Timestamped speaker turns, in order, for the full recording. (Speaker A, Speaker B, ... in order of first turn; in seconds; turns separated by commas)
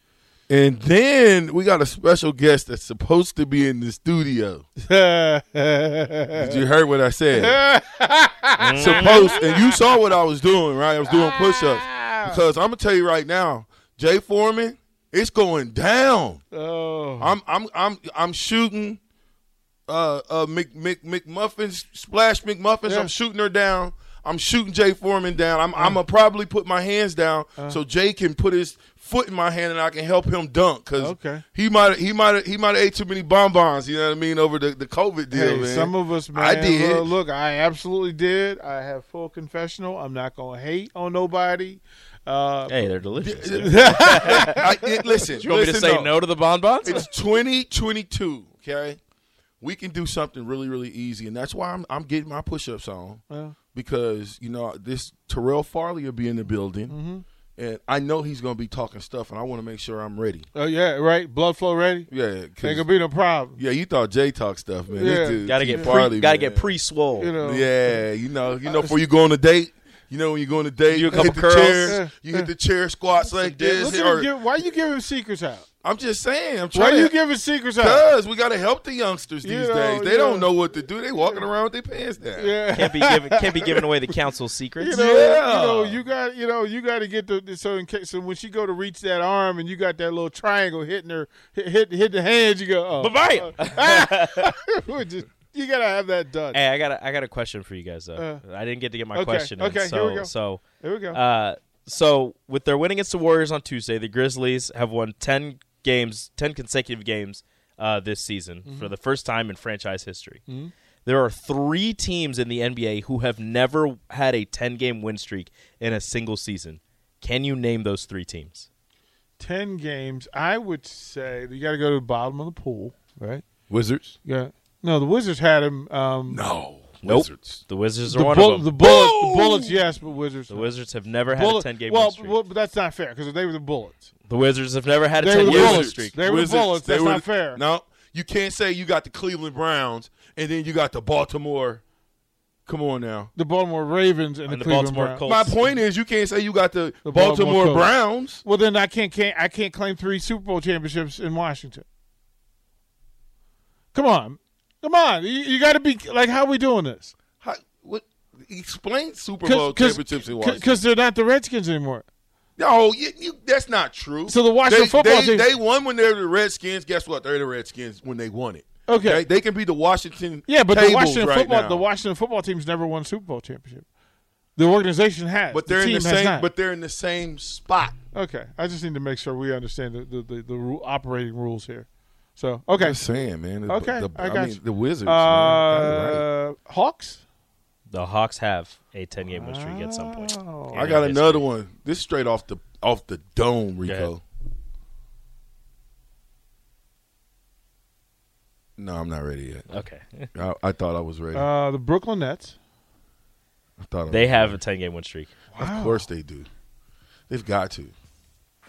Speaker A: 0.5-4.7, Speaker B: 4.8-6.6, Speaker A: 6.4-7.6, Speaker B: 7.4-9.9, Speaker C: 8.6-9.4, Speaker A: 8.8-16.4, Speaker B: 11.1-12.4, Speaker B: 16.5-17.4, Speaker A: 17.2-19.0, Speaker A: 19.9-37.1, Speaker B: 31.0-31.4, Speaker B: 35.3-43.1, Speaker C: 42.7-44.6, Speaker A: 43.2-46.2, Speaker B: 43.6-44.9, Speaker C: 45.4-47.1, Speaker A: 46.8-49.0, Speaker A: 49.6-57.0, Speaker B: 53.3-53.6, Speaker B: 56.9-57.2, Speaker A: 57.6-60.5, Speaker B: 60.5-62.1, Speaker A: 62.1-62.9, Speaker B: 62.6-63.6, Speaker A: 63.6-66.8, Speaker B: 65.0-66.0, Speaker C: 65.4-67.3, Speaker B: 67.2-68.0, Speaker A: 67.3-74.3, Speaker B: 68.7-69.0, Speaker C: 70.9-72.0, Speaker B: 71.9-72.5, Speaker B: 73.3-75.7, Speaker A: 75.8-77.2, Speaker B: 76.7-78.0, Speaker A: 77.8-82.6, Speaker B: 79.4-80.5, Speaker B: 82.4-84.1, Speaker C: 82.7-85.0, Speaker B: 84.8-96.6, Speaker A: 84.9-86.0, Speaker C: 93.0-94.5, Speaker C: 96.5-110.4, Speaker B: 98.2-98.4, Speaker B: 99.1-101.2, Speaker B: 108.7-108.9, Speaker B: 110.5-110.7, Speaker C: 111.1-118.7, Speaker B: 119.4-123.4, Speaker A: 123.7-124.2, Speaker B: 124.2-126.4, Speaker A: 126.3-127.6, Speaker C: 127.0-128.7, Speaker B: 128.1-130.7, Speaker A: 128.8-129.7, Speaker C: 130.5-132.4, Speaker B: 131.3-134.1, Speaker C: 134.3-136.2, Speaker B: 135.2-137.6, Speaker A: 135.4-141.8, Speaker A: 142.7-143.3, Speaker B: 143.4-145.2, Speaker C: 144.5-145.6, Speaker A: 145.2-148.4, Speaker B: 147.1-151.8, Speaker B: 153.9-157.1, Speaker A: 157.4-160.7, Speaker B: 159.4-162.1, Speaker A: 162.6-171.8, Speaker B: 164.3-165.5, Speaker B: 168.9-169.2, Speaker B: 170.5-173.8, Speaker B: 174.6-176.5, Speaker A: 175.5-178.0, Speaker B: 178.1-183.0, Speaker A: 182.8-186.2, Speaker B: 183.7-187.2, Speaker C: 187.9-191.5, Speaker B: 189.3-190.8, Speaker A: 190.7-194.2, Speaker C: 193.9-194.1, Speaker A: 198.8-199.7, Speaker C: 199.7-200.3, Speaker A: 200.3-201.5, Speaker B: 201.3-202.6, Speaker A: 203.8-204.6, Speaker C: 204.1-205.3, Speaker B: 205.5-206.1, Speaker A: 205.6-206.5, Speaker A: 207.3-207.9